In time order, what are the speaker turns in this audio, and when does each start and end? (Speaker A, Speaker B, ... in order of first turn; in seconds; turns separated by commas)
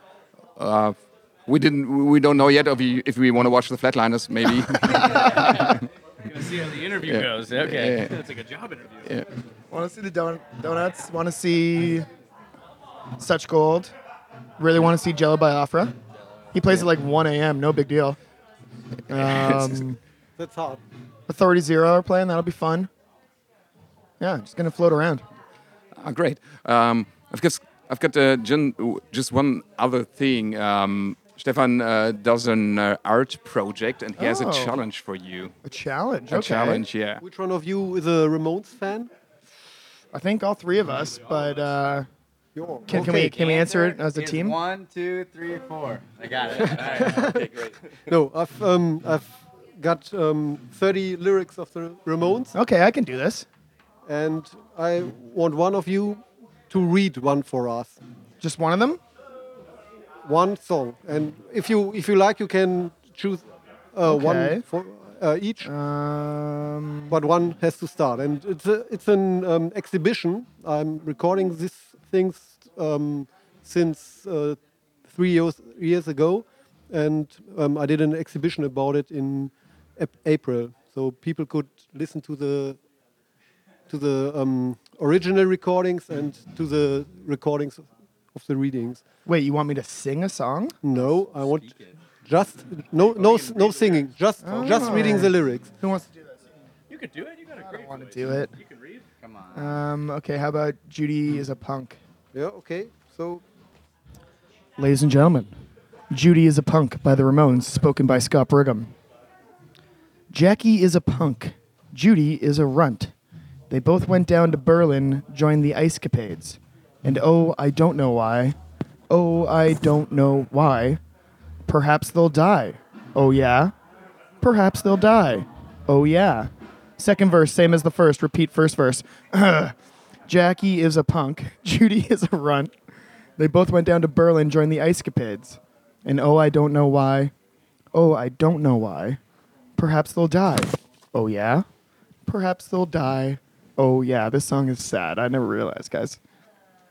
Speaker A: 0.6-0.9, Speaker A: 1.5-5.7, Speaker B: 5.0-5.5, Speaker C: 5.4-9.1, Speaker A: 7.0-8.2, Speaker B: 9.7-12.1, Speaker B: 13.2-13.9, Speaker B: 14.6-15.9, Speaker B: 16.5-18.2, Speaker B: 19.1-20.0, Speaker A: 19.1-19.8, Speaker D: 20.4-20.8, Speaker B: 21.3-22.9, Speaker B: 24.2-25.2, Speaker A: 26.0-35.5, Speaker B: 34.2-34.8, Speaker B: 35.6-36.9, Speaker A: 36.3-37.2, Speaker D: 37.2-39.1, Speaker B: 40.1-42.1, Speaker D: 42.5-43.4, Speaker B: 42.9-44.6, Speaker E: 43.1-47.5, Speaker D: 47.1-47.5, Speaker D: 48.1-52.5, Speaker B: 52.5-53.5, Speaker D: 54.1-58.0, Speaker B: 58.4-59.0, Speaker D: 60.2-65.7, Speaker B: 64.0-64.6, Speaker B: 65.7-67.2, Speaker D: 67.1-82.8, Speaker D: 83.9-89.0, Speaker B: 89.3-90.8, Speaker D: 90.8-95.7, Speaker E: 91.0-91.9, Speaker C: 93.1-94.0, Speaker B: 94.4-96.4, Speaker C: 96.9-99.0, Speaker B: 97.7-98.5, Speaker E: 99.2-99.7, Speaker B: 99.5-102.0, Speaker D: 102.3-103.4, Speaker B: 104.8-105.5, Speaker B: 106.1-108.9, Speaker B: 110.3-113.1, Speaker B: 113.7-118.5, Speaker B: 119.1-121.0, Speaker B: 121.7-123.7, Speaker B: 124.4-129.7, Speaker B: 130.3-132.7, Speaker B: 133.4-137.3, Speaker B: 137.9-139.2, Speaker B: 139.8-141.7, Speaker B: 142.3-146.2